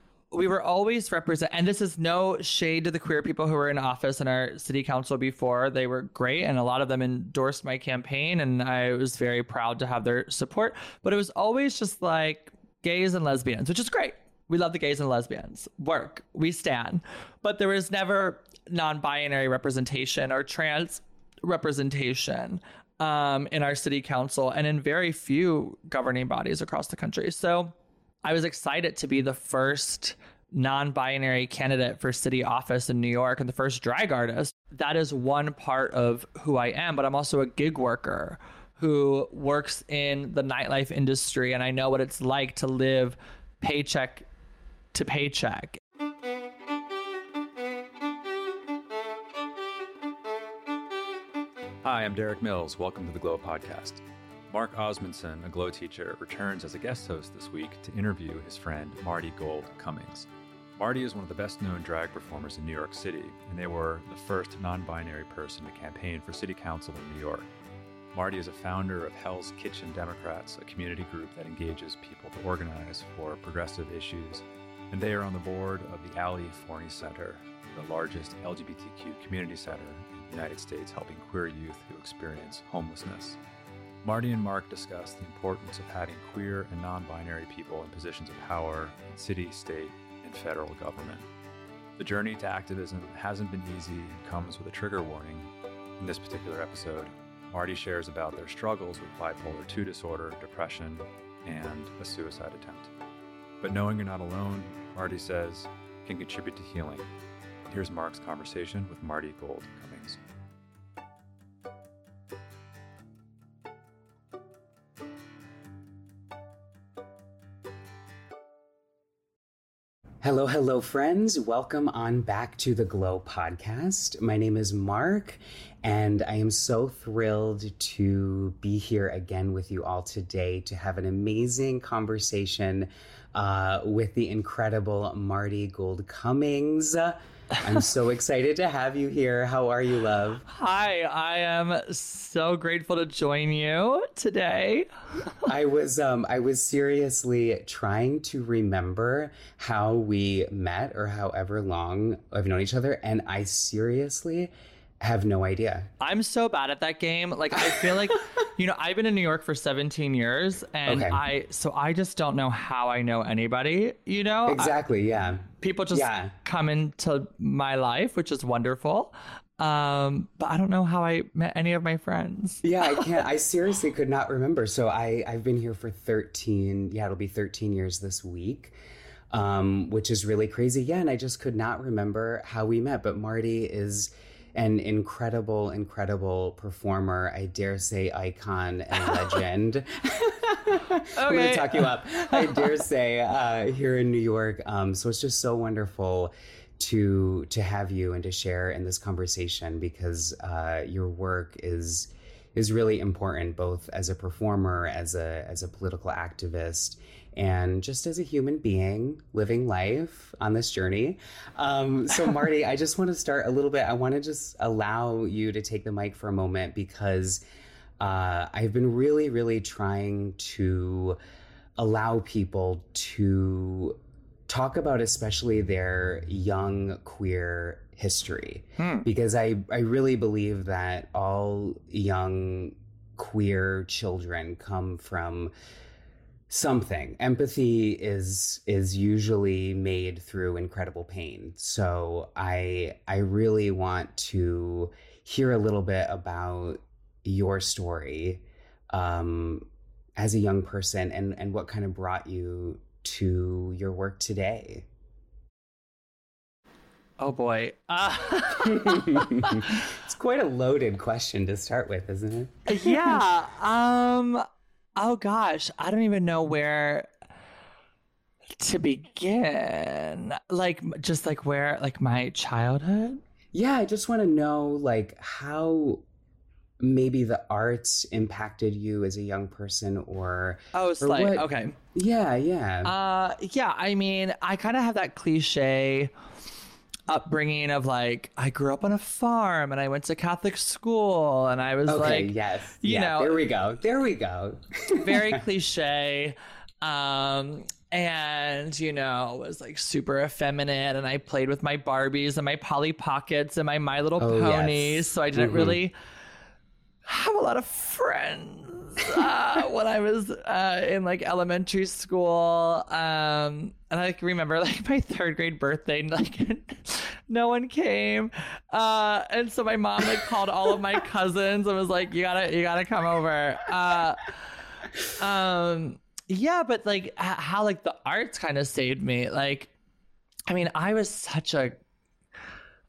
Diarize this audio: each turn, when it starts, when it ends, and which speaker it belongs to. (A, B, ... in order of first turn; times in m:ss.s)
0:00.3-0:44.3 A
0:44.9-0:45.8 A
0:51.8-1:07.5 B
1:08.1-1:23.4 B
1:24.0-1:31.2 B
1:32.0-1:42.9 B
1:43.6-1:47.1 B
1:47.6-1:50.2 B
2:00.2-2:20.4 C
2:20.5-2:24.9 A
2:25.4-2:35.9 C
2:36.0-2:44.7 A
2:37.6-2:38.0 C
2:40.8-2:41.2 C
2:44.5-2:46.3 C
2:45.6-2:53.1 A
2:52.6-2:58.7 C
2:59.3-3:37.4 C
3:11.2-3:12.7 A
3:38.0-3:41.2 C
3:41.8-3:44.0 C
3:44.5-3:55.5 C
3:48.8-3:49.1 A
3:56.5-4:14.9 C
4:17.2-4:19.8 A
4:18.6-4:23.2 C
4:22.7-4:24.4 A
4:25.0-4:27.1 A
4:28.6-4:33.2 A
4:33.5-4:36.0 C
4:36.8-4:42.9 C
4:40.7-4:41.8 A
4:42.8-4:46.1 A
4:47.1-4:53.4 A
4:51.8-4:55.4 C
4:54.9-5:05.9 A
5:04.2-5:05.8 C
5:07.0-5:24.4 A
5:25.1-5:29.7 A
5:30.5-5:31.8 A